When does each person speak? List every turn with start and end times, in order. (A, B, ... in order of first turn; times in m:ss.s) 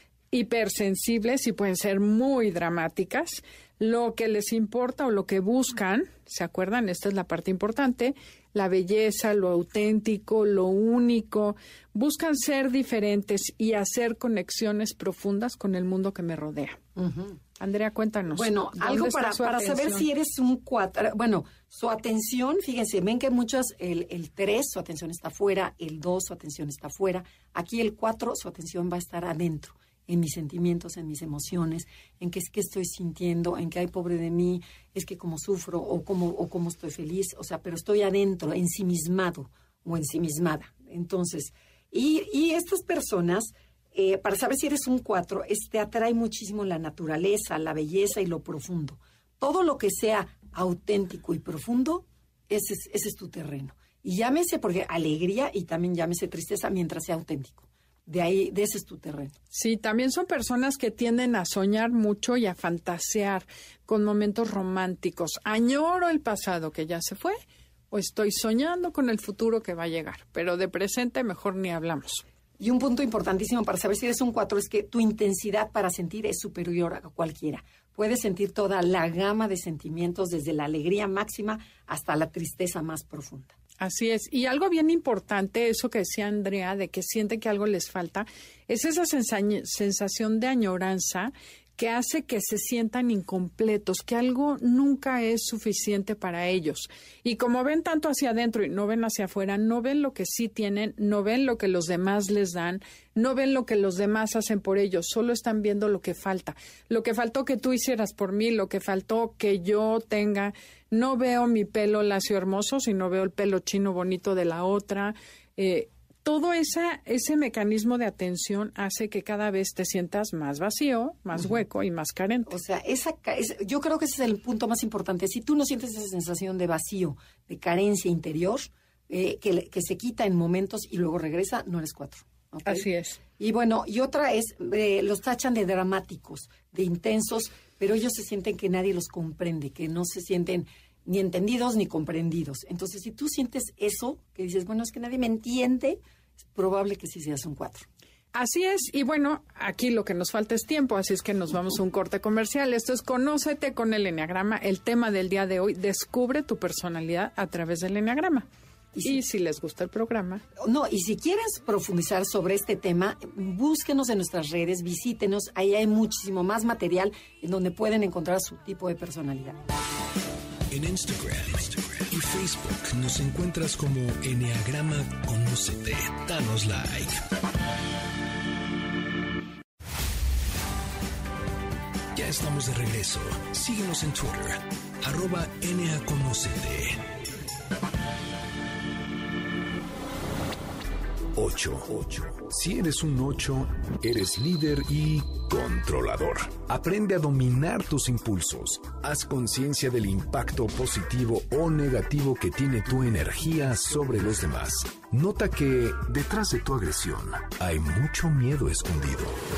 0:00.3-0:16.8 A
0:17.0-0:17.4 B
0:17.6-0:20.0 A
0:18.3-0:59.3 B
0:59.5-1:07.4 A
1:07.9-1:12.2 A
1:12.6-1:23.5 B
1:23.8-2:02.5 A
2:02.5-2:12.8 B
2:12.6-2:13.2 A
2:13.4-2:27.8 B
2:28.3-2:38.5 A
2:39.0-2:39.2 B
2:39.0-2:40.4 A
2:40.6-2:49.6 B
2:50.7-2:57.2 C
3:02.1-3:07.1 C
3:11.3-3:29.4 C